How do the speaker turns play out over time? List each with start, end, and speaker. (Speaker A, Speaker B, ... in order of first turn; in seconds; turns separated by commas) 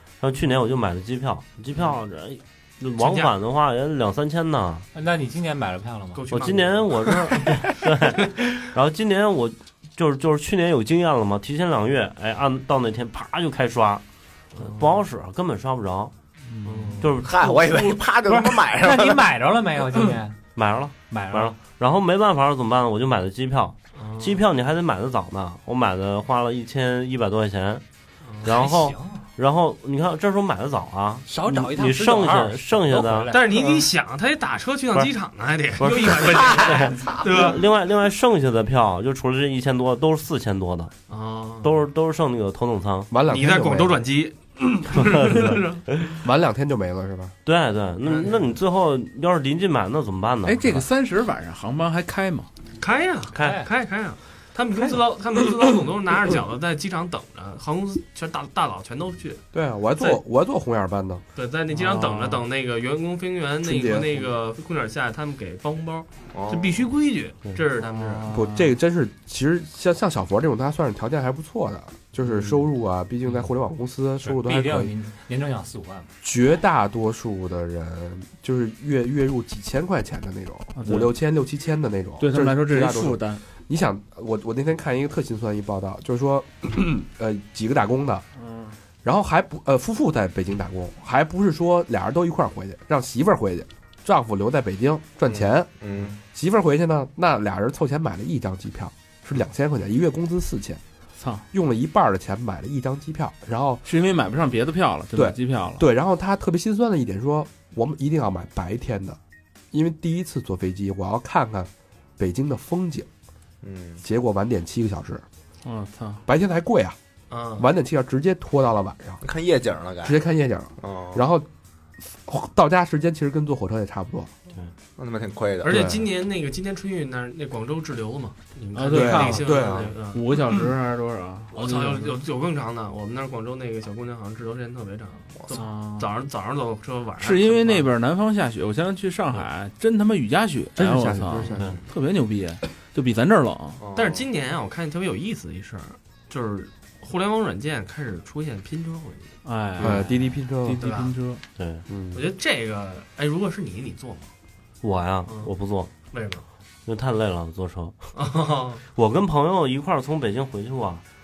Speaker A: 0.2-4.9, Speaker B: 1.7-2.0, Speaker B: 3.0-3.3, Speaker C: 4.9-6.2, Speaker B: 6.2-8.4, Speaker A: 6.3-14.0, Speaker B: 14.5-15.1, Speaker A: 14.6-16.1, Speaker D: 16.5-17.1, Speaker B: 16.6-17.1, Speaker A: 17.0-17.4, Speaker E: 17.2-19.3, Speaker C: 17.4-20.4, Speaker A: 20.6-27.8, Speaker C: 21.1-21.6, Speaker B: 23.9-24.4, Speaker B: 28.2-28.5, Speaker A: 28.4-33.4, Speaker C: 28.4-29.2, Speaker C: 31.3-33.5, Speaker B: 33.3-37.6, Speaker E: 33.5-33.9, Speaker A: 35.8-40.9, Speaker E: 36.3-37.3, Speaker B: 41.1-41.9, Speaker A: 41.6-43.1, Speaker F: 43.1-44.0, Speaker B: 43.3-45.8, Speaker A: 45.0-46.1, Speaker F: 46.2-47.4, Speaker A: 47.5-50.9, Speaker B: 48.0-48.6, Speaker D: 50.5-52.5, Speaker B: 52.8-59.4, Speaker C: 53.4-53.7, Speaker F: 59.5-61.2, Speaker B: 61.4-68.2, Speaker D: 61.8-62.4, Speaker F: 63.6-64.3, Speaker E: 66.3-66.8, Speaker D: 67.8-68.7, Speaker F: 68.3-74.9, Speaker C: 74.2-76.1, Speaker F: 76.2-88.3, Speaker D: 80.8-81.2, Speaker D: 82.2-83.4, Speaker D: 88.4-88.8, Speaker F: 89.0-100.8, Speaker E: 95.3-96.2, Speaker D: 101.2-101.4, Speaker F: 101.5-103.8, Speaker D: 103.8-105.8, Speaker F: 105.1-109.2, Speaker F: 109.7-113.1, Speaker E: 113.6-114.0, Speaker F: 114.0-115.2, Speaker D: 115.7-116.2, Speaker F: 116.3-117.0, Speaker B: 117.3-117.7, Speaker F: 117.6-119.2, Speaker E: 119.2-120.2, Speaker F: 120.0-121.5, Speaker E: 120.8-121.2, Speaker F: 122.0-124.3, Speaker E: 125.0-125.9, Speaker B: 125.6-130.3, Speaker F: 125.7-126.0, Speaker D: 128.7-132.2, Speaker F: 128.9-129.9, Speaker B: 131.5-137.9, Speaker E: 135.4-135.6, Speaker D: 135.5-136.1, Speaker D: 137.2-143.8, Speaker F: 140.8-141.7, Speaker E: 143.8-144.3, Speaker B: 143.9-150.0, Speaker D: 149.4-151.4, Speaker F: 149.8-150.8, Speaker B: 150.8-151.1, Speaker A: 151.6-151.8, Speaker F: 151.9-152.2, Speaker B: 152.1-154.3, Speaker A: 154.8-155.9, Speaker B: 155.3-155.5, Speaker B: 156.1-156.4, Speaker A: 156.9-158.1, Speaker B: 158.2-158.8, Speaker A: 158.9-161.0